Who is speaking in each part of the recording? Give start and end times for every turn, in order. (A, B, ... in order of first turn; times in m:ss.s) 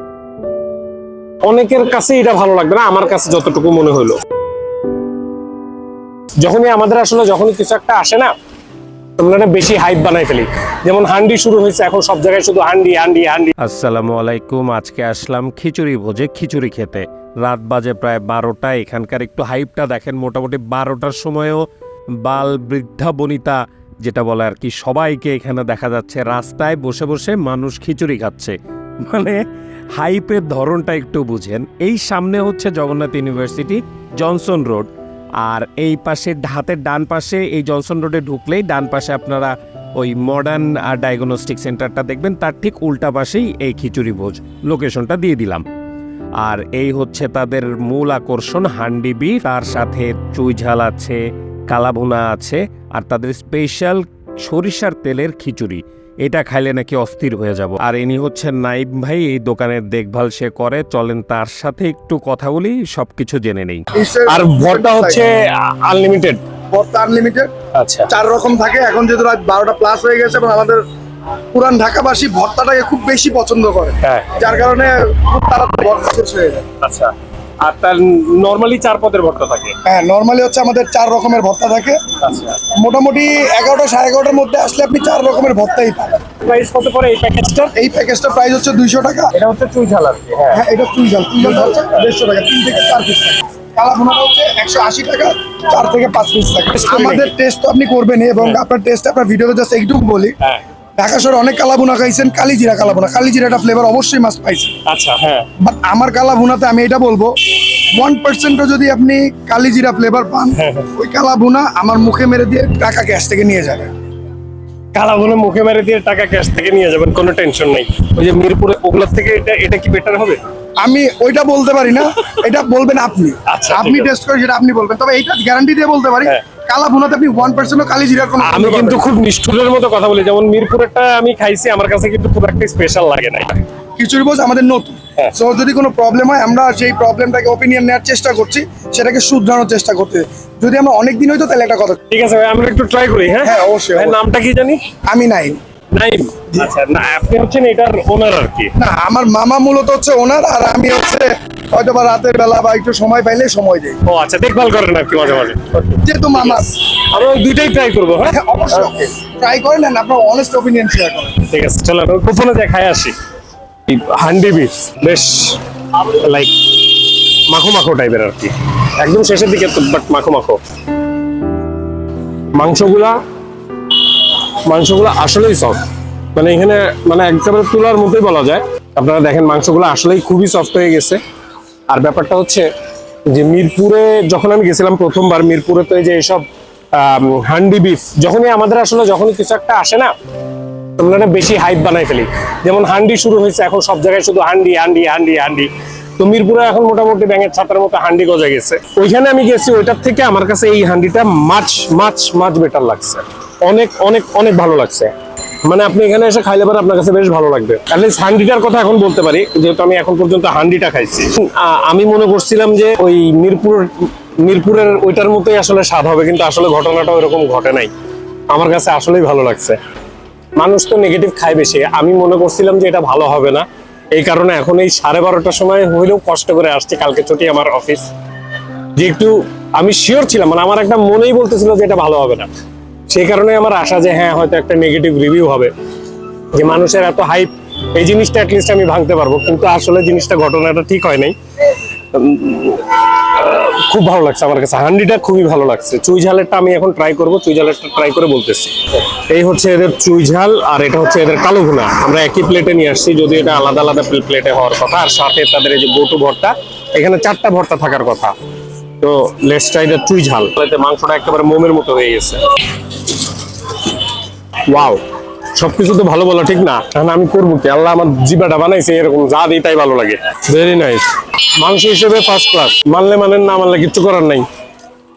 0:01.4-0:04.2 A
0:06.4-0:08.3 A
0:09.2-0:13.5 A
0:13.6-0:21.6 B
0:22.2-0:29.4 B
0:30.0-0:34.9 B
0:35.4-0:45.6 B
0:46.4-1:03.8 B
1:03.9-1:05.3 C
1:04.3-1:06.4 A
1:06.7-1:07.5 C
1:07.7-1:08.1 A
1:08.1-1:10.8 C
1:11.5-1:16.6 C
1:14.0-1:14.3 A
1:16.8-1:19.7 A
1:19.8-1:22.0 C
1:22.2-1:22.6 A
1:22.8-1:26.2 C
1:26.4-1:27.7 A
1:27.7-1:29.3 C
1:29.3-1:30.6 A
1:30.5-1:40.3 C
1:31.4-1:32.0 A
1:36.7-1:37.3 A
1:41.0-1:44.7 C
1:44.8-1:45.5 A
1:45.6-1:47.3 C
1:48.0-1:53.9 C
1:50.5-1:50.9 A
1:54.9-2:00.4 A
2:00.8-2:09.0 C
2:03.5-2:04.1 A
2:08.4-2:13.6 A
2:14.0-2:22.0 C
2:22.1-2:24.8 A
2:23.4-2:24.2 C
2:25.1-2:25.6 C
2:25.9-2:28.7 A
2:28.8-2:34.0 C
2:34.0-2:38.4 A
2:36.0-2:36.7 C
2:38.3-2:41.4 C
2:41.5-2:43.2 A
2:43.9-2:46.9 A
2:47.5-2:50.6 A
2:52.5-2:53.2 A
2:54.6-2:55.8 A
2:56.3-3:01.2 A
3:01.9-3:02.7 A
3:03.3-3:10.1 A
3:11.0-3:25.1 A
3:25.6-3:37.9 A
3:38.5-3:39.8 A
3:40.6-3:48.1 A
3:49.0-3:52.5 A
3:53.1-3:55.7 A
3:56.5-4:01.4 A
4:02.1-4:18.3 A
4:19.0-4:22.4 A
4:24.7-4:25.0 A
4:25.5-4:31.0 A
4:31.6-4:34.4 A